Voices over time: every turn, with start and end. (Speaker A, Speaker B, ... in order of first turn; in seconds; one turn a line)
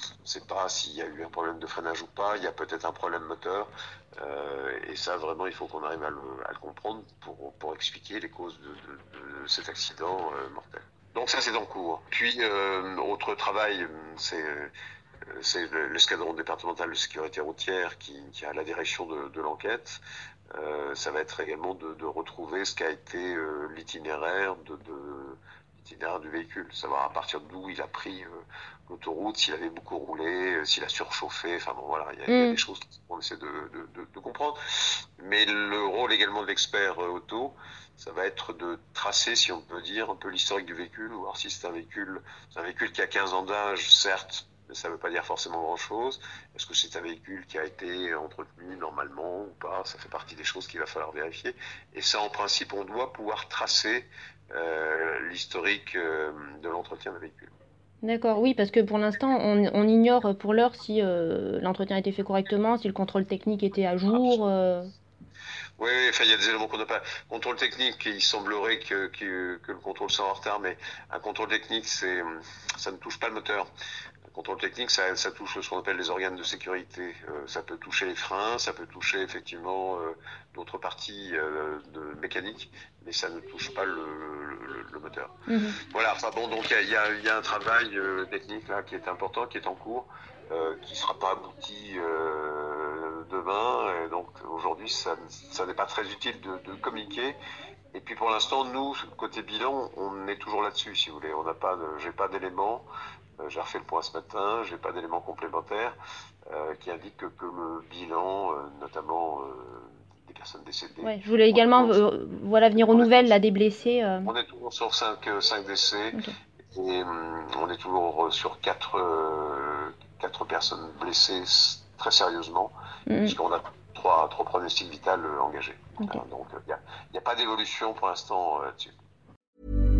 Speaker A: 0.2-14.7
Speaker A: 15.3-20.0
Speaker A: 20.5-57.5
Speaker B: 32.3-32.6
Speaker B: 58.0-64.9
Speaker A: 64.1-64.4
Speaker A: 65.8-73.7
Speaker A: 74.3-85.3
Speaker B: 85.5-85.8
Speaker A: 85.9-97.4
Speaker A: 97.9-102.9
Speaker A: 103.4-106.0
Speaker A: 106.5-112.0
Speaker B: 111.0-114.3
Speaker A: 112.7-113.4
Speaker A: 114.2-116.2
Speaker A: 116.7-128.9
Speaker B: 123.1-123.3